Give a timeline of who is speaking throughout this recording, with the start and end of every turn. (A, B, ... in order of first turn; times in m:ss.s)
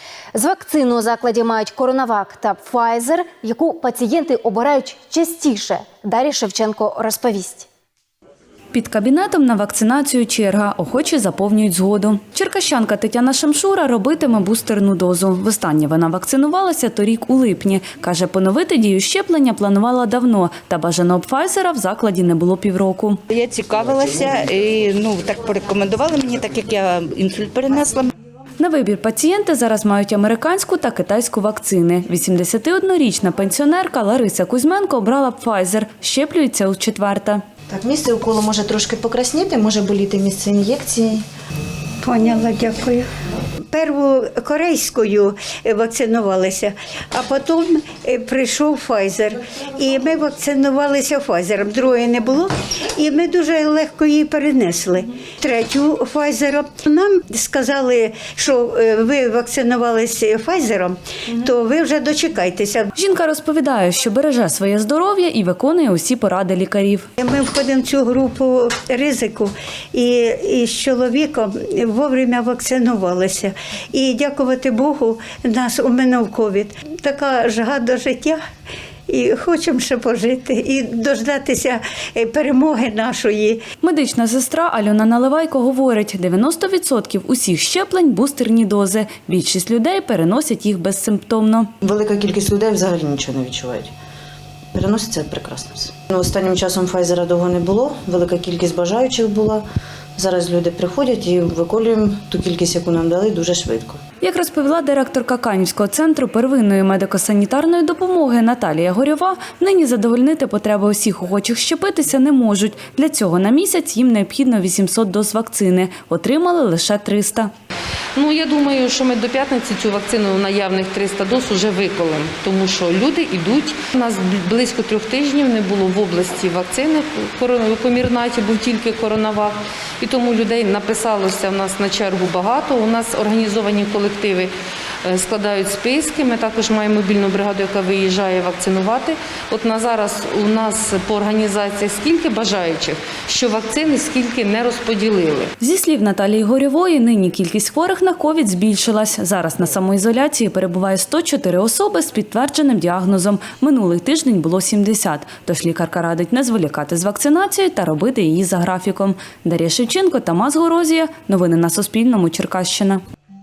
0:00.3-0:07.7 A
0:08.7-0:23.2 B
0:23.3-0:27.9 C
0:28.6-0:37.4 B
0:37.7-0:41.2 D
0:42.0-0:43.1 E
0:43.7-1:02.9 E
1:03.0-1:07.1 B
1:07.2-1:18.4 E
1:19.1-1:23.6 E
1:23.8-1:31.7 B
1:31.8-1:33.9 D
1:34.7-1:39.6 D
1:40.2-1:44.0 D
1:44.2-1:57.5 B
1:58.1-2:14.5 F
2:15.0-2:25.5 F
2:25.6-2:43.0 B